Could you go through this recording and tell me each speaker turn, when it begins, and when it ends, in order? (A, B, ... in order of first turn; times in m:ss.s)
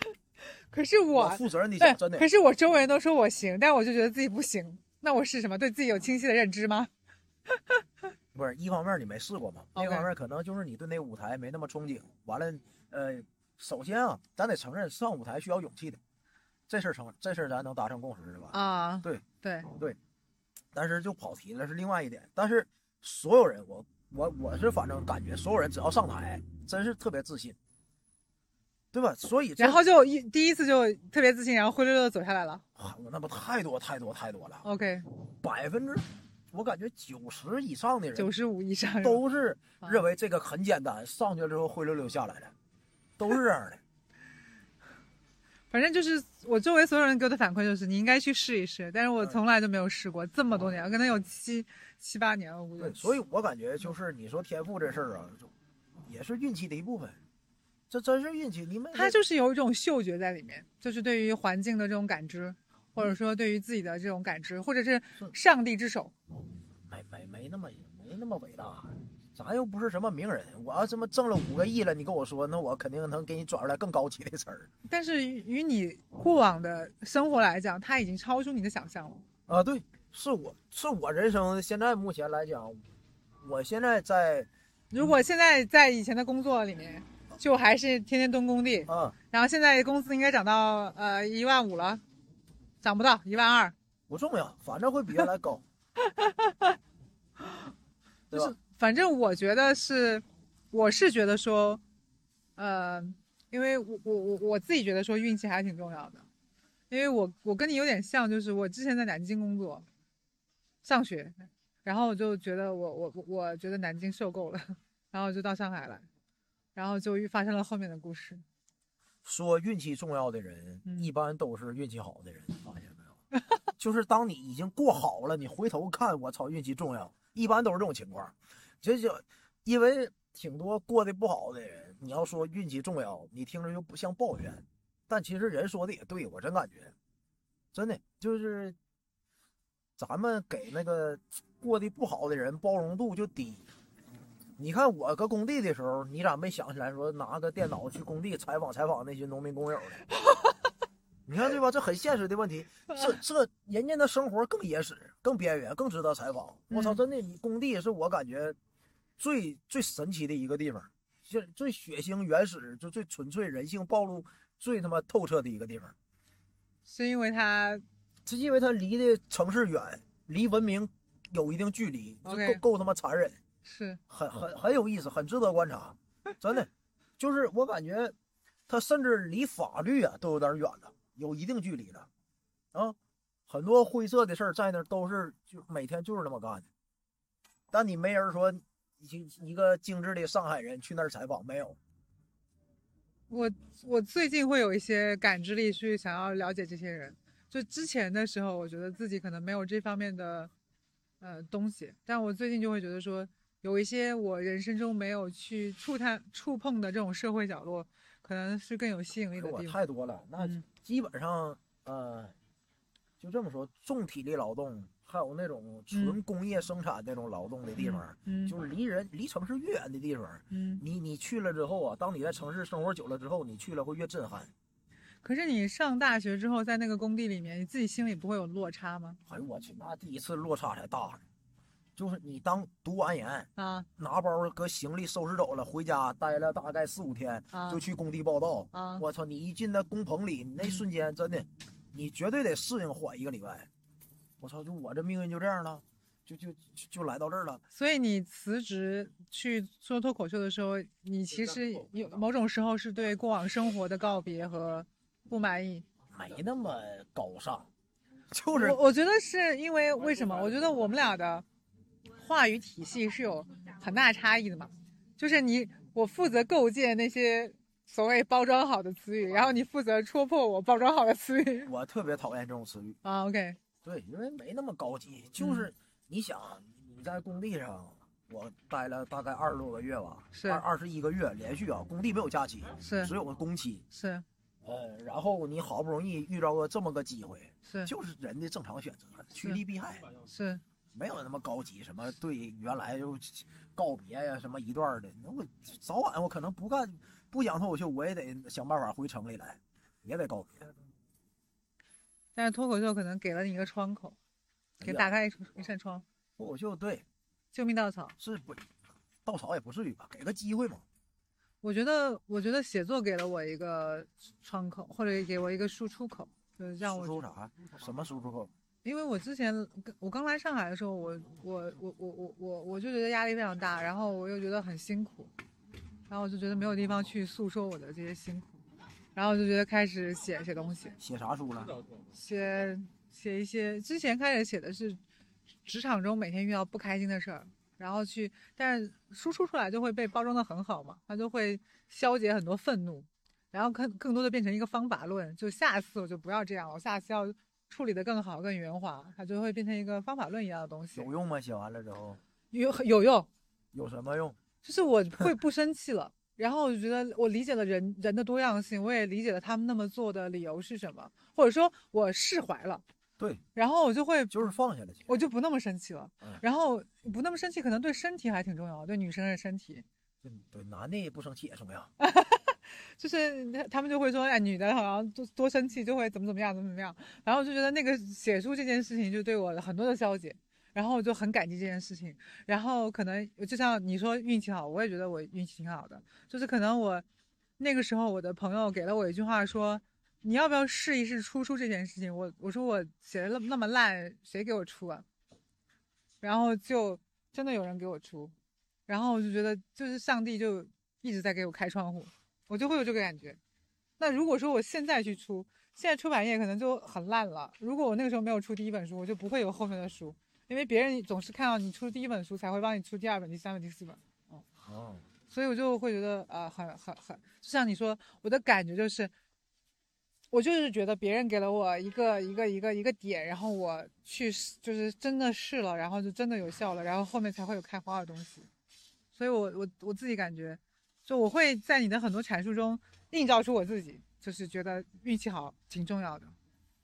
0:00.6-0:06.9 A
0:01.1-0:02.3 B
0:07.6-0:07.8 A
0:08.3-0:16.0 B
0:09.7-0:10.1 A
0:16.7-0:20.0 B
0:18.5-0:19.7 A
0:20.7-0:27.6 B
0:28.9-0:29.8 B
0:29.6-0:32.6 A
0:32.8-0:34.6 B
0:34.6-0:35.1 A
0:35.4-0:38.3 B
0:38.2-0:39.2 A
0:39.0-0:42.5 B
0:43.2-0:43.8 B
0:45.7-0:53.2 A
0:52.8-0:55.5 B
0:56.0-0:57.2 B
0:57.9-0:59.2 B
0:58.9-1:06.1 A
1:06.9-1:14.7 B
1:14.9-1:19.2 A
1:19.5-1:22.8 B
1:23.4-1:24.5 B
1:24.9-1:32.0 A
1:28.9-1:29.1 B
1:32.8-1:33.7 A
1:34.1-1:35.6 B
1:36.0-1:36.8 A
1:38.3-1:41.8 A
1:42.6-1:46.2 A
1:46.9-1:49.8 A
1:50.8-1:56.0 A
1:56.7-1:58.4 A
1:59.2-2:03.1 B
2:00.8-2:01.1 A
2:03.8-2:16.9 B
2:17.7-2:18.8 B
2:20.0-2:23.6 B
2:24.6-2:30.0 B
2:30.3-2:30.5 A
2:31.2-2:38.6 B
2:36.7-2:37.0 A
2:39.2-2:45.9 B
2:46.8-2:47.8 A
2:48.2-2:53.4 B
2:52.2-2:52.6 A
2:53.6-2:54.0 A
2:54.1-2:58.1 B
2:58.7-3:02.1 B
3:03.5-3:06.6 B
3:07.7-3:11.8 B
3:13.3-3:20.5 A
3:21.2-3:29.8 A
3:29.4-3:32.3 B
3:33.2-3:44.5 B
3:35.9-3:36.2 A
3:37.8-3:38.6 A
3:40.5-3:40.8 A
3:45.2-3:49.2 A
3:49.3-3:51.2 B
3:52.0-4:03.7 B
3:53.6-3:53.9 A
3:57.5-3:57.8 A
3:58.7-3:59.0 A
4:04.4-4:07.6 B
4:07.7-4:15.8 A
4:16.1-4:17.7 B
4:18.3-4:18.8 B
4:18.5-4:21.4 A
4:22.2-4:31.7 A
4:31.6-4:33.0 B
4:33.0-4:33.6 A
4:33.8-4:43.8 B
4:35.4-4:35.7 A
4:40.3-4:40.6 A
4:42.8-4:43.1 A
4:43.9-4:44.2 A
4:44.6-4:50.1 B
4:47.6-4:47.9 A
4:50.3-4:50.6 A
4:50.9-5:00.7 B
5:02.3-5:04.2 A
5:04.8-5:06.0 A
5:04.8-5:05.1 B
5:06.4-5:07.0 B
5:07.5-5:08.1 A
5:08.2-5:08.7 B
5:09.2-5:10.8 B
5:11.6-5:17.2 A
5:16.8-5:18.5 B
5:18.8-5:25.3 A
5:26.1-5:28.6 A
5:29.1-5:31.0 A
5:31.0-5:31.8 B
5:32.1-5:35.0 A
5:35.6-5:51.1 A
5:51.0-5:52.2 B
5:52.5-5:53.3 A
5:53.7-5:54.4 B
5:54.6-6:02.8 A
6:03.6-6:04.5 A
6:04.3-6:05.1 B
6:05.1-6:09.8 A
6:10.2-6:11.9 B
6:12.0-6:27.0 A
6:27.6-6:35.0 A
6:36.2-6:38.3 A
6:38.9-6:43.4 A
6:44.0-6:54.4 A
6:54.6-6:55.0 B
6:55.3-6:59.1 A
7:00.3-7:08.5 A
7:09.1-7:16.3 A